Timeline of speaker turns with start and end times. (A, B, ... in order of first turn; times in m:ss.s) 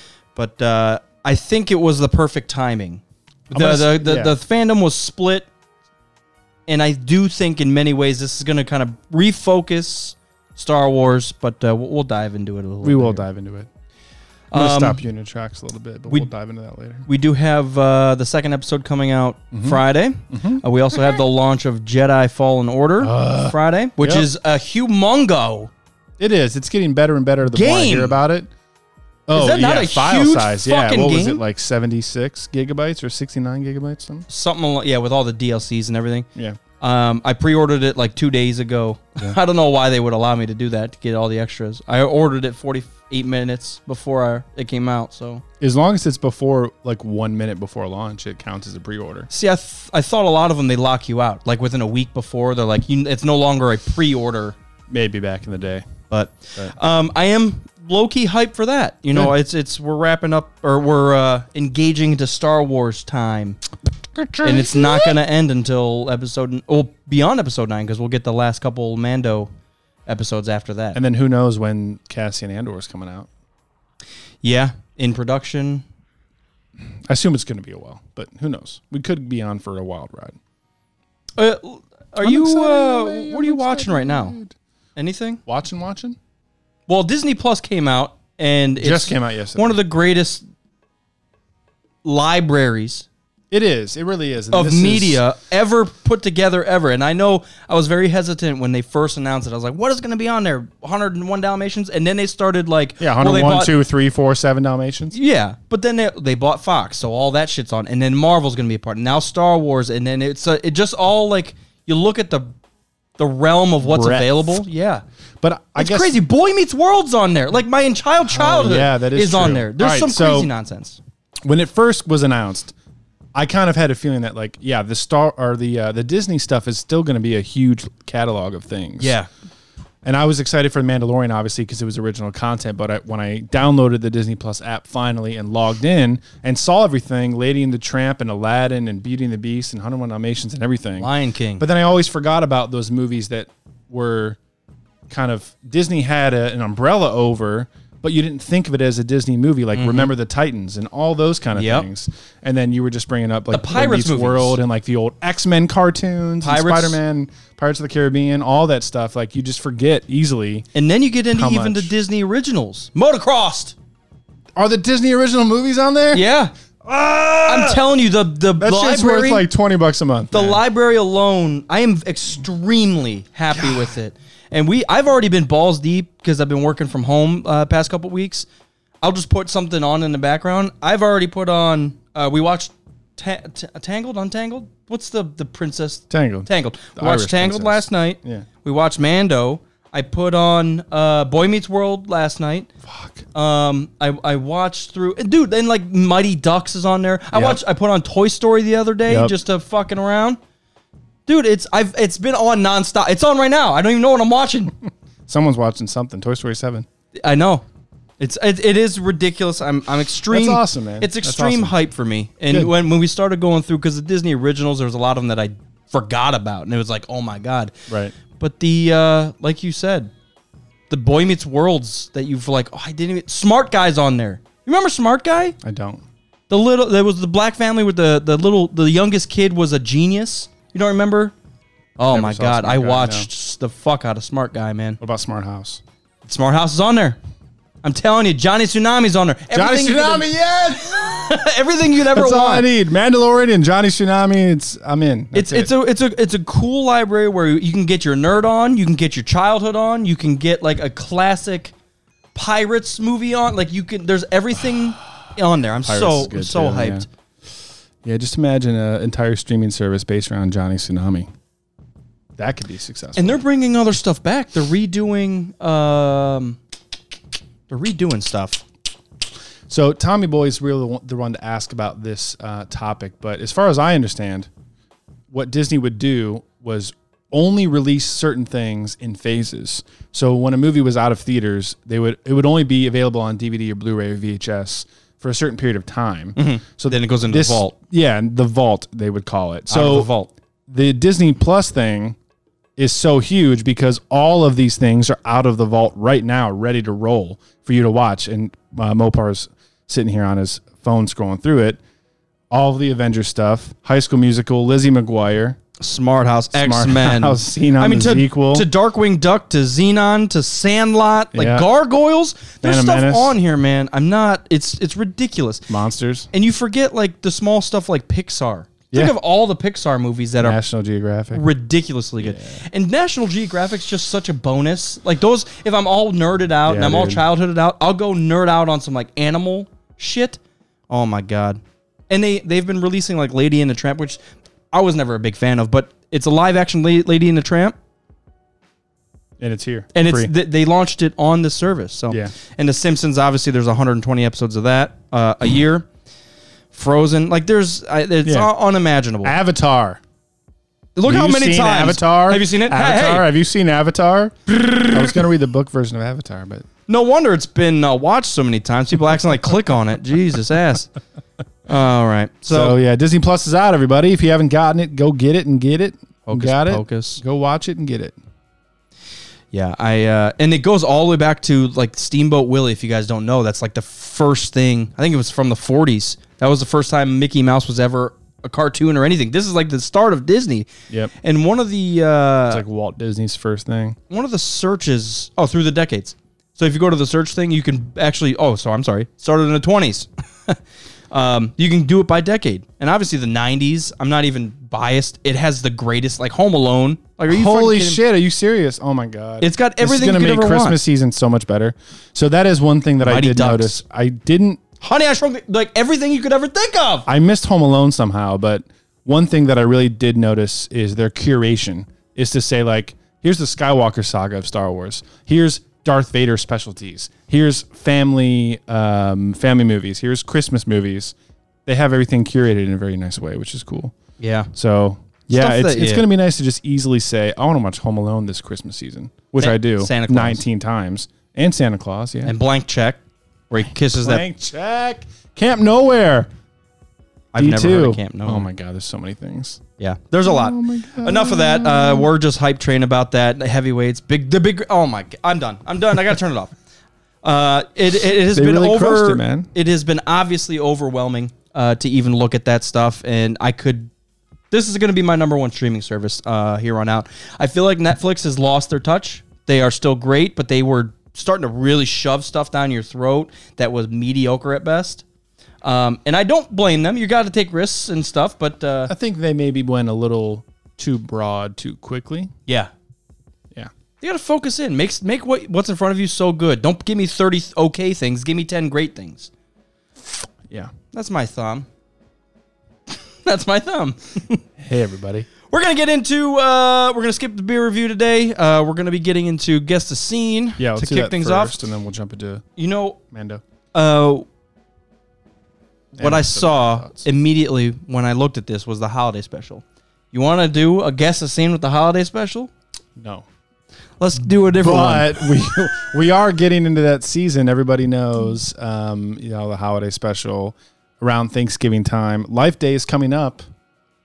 0:00.4-0:05.5 A
0:03.5-0:04.4 B
0:06.7-0:13.3 A
0:12.8-0:13.7 B
0:14.5-0:15.0 A
0:14.5-0:17.1 B
0:17.1-0:25.7 A
0:19.5-0:20.6 B
0:23.0-0:24.3 B
0:26.2-0:28.5 B
0:27.5-0:28.2 A
0:29.3-0:34.3 B
0:29.3-0:31.4 A
0:34.3-0:36.3 A
0:36.8-0:45.4 A
0:45.6-0:49.3 B
0:49.3-0:54.6 A
0:54.9-0:55.9 B
0:56.1-1:03.6 A
1:04.2-1:05.2 B
1:04.4-1:09.5 A
1:10.1-1:11.0 A
1:10.9-1:13.3 B
1:14.4-1:15.9 A
1:17.1-1:20.4 B
1:21.4-1:24.4 A
1:22.2-1:24.6 B
1:25.0-1:25.4 A
1:25.5-1:26.2 B
1:26.9-1:30.4 A
1:28.8-1:29.8 B
1:32.0-1:33.1 A
1:33.5-1:35.2 B
1:34.5-1:43.8 A
1:43.0-1:45.2 B
1:45.1-1:52.5 A
1:53.2-1:55.0 A
1:53.8-1:54.6 B
1:55.4-1:56.2 B
1:55.8-2:01.0 A
1:58.3-2:00.5 B
2:01.4-2:02.7 B
2:03.4-2:09.2 B
2:09.0-2:09.3 A
2:10.0-2:24.4 B
2:21.0-2:21.6 A
2:25.1-2:40.7 B
2:29.8-2:30.1 A
2:31.6-2:31.9 A
2:33.5-2:34.6 A
2:36.4-2:37.0 A
2:40.8-2:43.8 A
2:41.3-2:41.9 B
2:44.6-2:46.3 B
2:46.1-2:46.5 A
2:46.8-2:47.8 B
2:47.5-2:49.5 A
2:48.6-2:50.6 B
2:50.3-2:58.5 A
2:53.5-2:53.9 B
2:59.0-3:12.7 A
3:06.1-3:08.5 B
3:12.8-3:13.3 B
3:13.3-3:20.4 A
3:17.3-3:17.6 B
3:19.1-3:19.4 B
3:21.3-3:24.7 A
3:25.3-3:26.9 B
3:27.2-3:27.6 A
3:28.2-3:37.7 A
3:30.3-3:31.8 B
3:37.9-3:38.2 B
3:38.4-3:40.1 A
3:40.9-3:45.6 A
3:45.6-3:46.0 B
3:46.5-3:51.4 A
3:52.0-3:55.0 A
3:52.1-3:53.3 B
3:55.0-3:55.8 B
3:56.2-3:57.2 A
3:57.8-4:00.3 A
3:59.5-4:01.2 B
4:00.8-4:02.7 A
4:02.1-4:05.7 B
4:05.3-4:11.7 A
4:12.3-4:17.1 A
4:15.8-4:17.1 B
4:18.0-4:21.3 B
4:22.4-4:23.4 B
4:23.2-4:26.6 A
4:27.7-4:28.6 A
4:29.7-4:34.5 B
4:35.3-4:50.1 B
4:46.4-4:47.8 A
4:49.7-4:50.3 A
4:50.7-4:52.2 B
4:52.8-5:01.8 B
5:02.5-5:05.6 B
5:05.8-5:15.7 A
5:06.5-5:08.7 B
5:11.4-5:11.7 B
5:12.6-5:13.4 B
5:15.7-5:16.3 B
5:16.3-5:20.6 A
5:18.9-5:19.2 B
5:20.4-5:21.5 B
5:21.3-5:37.8 A
5:22.2-5:22.6 B
5:26.7-5:27.2 B
5:39.4-5:40.3 B
5:39.9-5:45.9 A
5:46.7-5:49.3 A
5:48.2-5:48.5 B
5:49.2-5:50.0 B
5:51.0-5:53.3 A
5:51.0-5:56.7 B
5:56.9-6:00.9 A
6:01.7-6:02.8 A
6:02.5-6:08.2 B
6:06.3-6:07.2 A
6:09.5-6:20.7 A
6:21.2-6:22.6 A
6:22.5-6:24.0 B
6:24.1-6:30.6 A
6:31.1-6:38.0 A
6:37.3-6:44.6 B
6:39.4-6:40.8 A
6:43.0-6:43.8 A
6:44.8-6:47.1 A
6:47.1-7:01.2 B
7:01.7-7:04.0 B
7:04.2-7:04.5 A
7:04.5-7:12.3 B
7:05.3-7:06.1 A
7:09.4-7:10.4 A
7:12.2-7:14.2 A
7:13.9-7:16.3 B
7:17.3-7:18.5 A
7:17.4-7:19.6 B
7:19.8-7:26.5 A
7:20.2-7:22.1 B
7:27.2-7:33.9 A
7:28.3-7:29.5 B
7:34.5-7:45.0 A
7:45.6-7:48.9 A
7:48.9-7:52.3 B
7:52.5-7:52.7 A
7:54.0-7:59.3 A
8:00.9-8:01.7 A
8:02.9-8:04.4 A
8:04.6-8:05.3 B
8:05.5-8:11.6 A
8:10.6-8:12.4 B
8:12.6-8:13.0 A
8:13.1-8:13.4 B
8:13.7-8:14.3 A
8:16.0-8:22.5 A
8:16.0-8:17.1 B
8:23.0-8:23.3 B
8:24.0-8:25.5 A
8:24.6-8:33.4 B